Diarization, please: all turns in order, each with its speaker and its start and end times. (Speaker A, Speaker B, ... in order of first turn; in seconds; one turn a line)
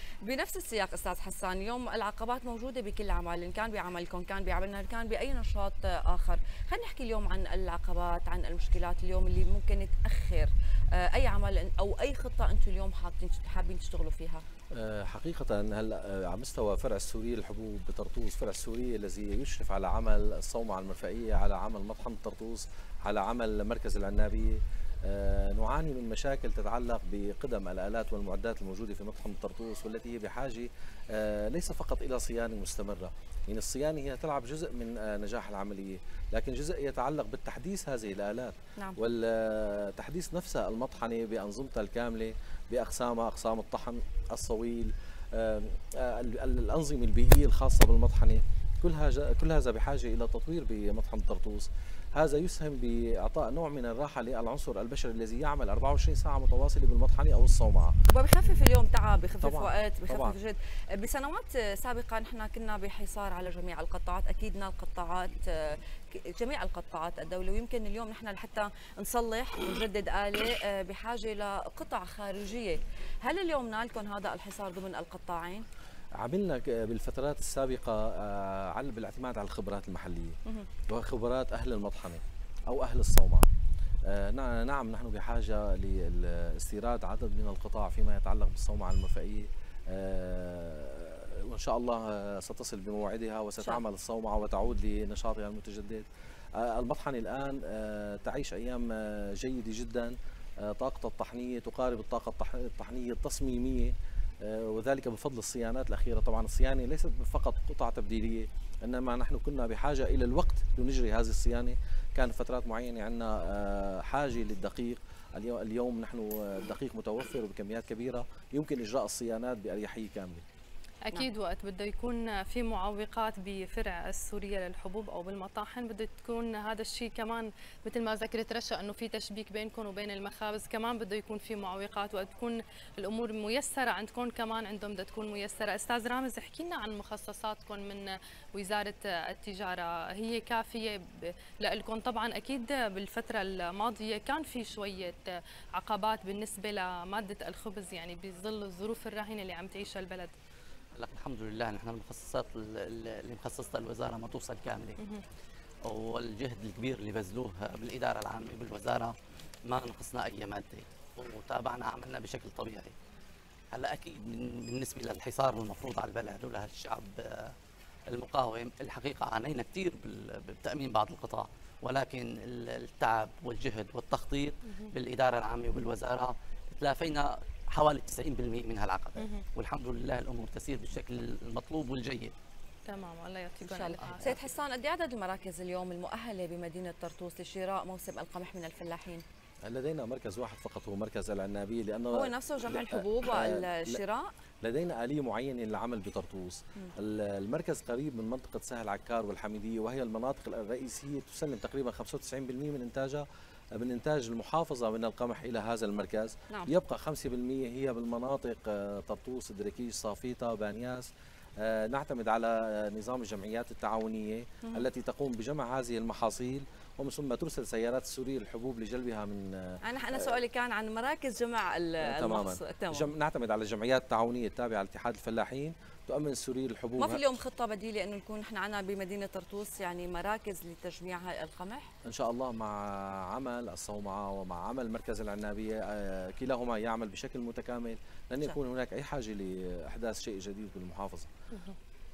Speaker A: 0.2-14.4
Speaker B: 14.7-58.0
Speaker A: 58.1-75.7
Speaker B: 59.4-60.3
Speaker B: 76.2-83.5
Speaker B: 84.0-96.0
Speaker B: 96.6-120.4
Speaker C: 121.0-150.3
Speaker D: 150.9-155.0
Speaker D: 155.8-162.9
Speaker D: 163.7-167.5
Speaker D: 168.1-182.3
Speaker C: 179.2-179.4
Speaker C: 182.8-184.4
Speaker A: 183.6-189.2
Speaker D: 184.0-184.4
Speaker B: 189.6-194.0
Speaker A: 192.1-194.3
Speaker B: 194.6-219.8
Speaker A: 219.8-223.1
Speaker B: 222.0-227.2
Speaker A: 227.0-231.9
Speaker B: 232.0-241.3
Speaker C: 241.5-241.8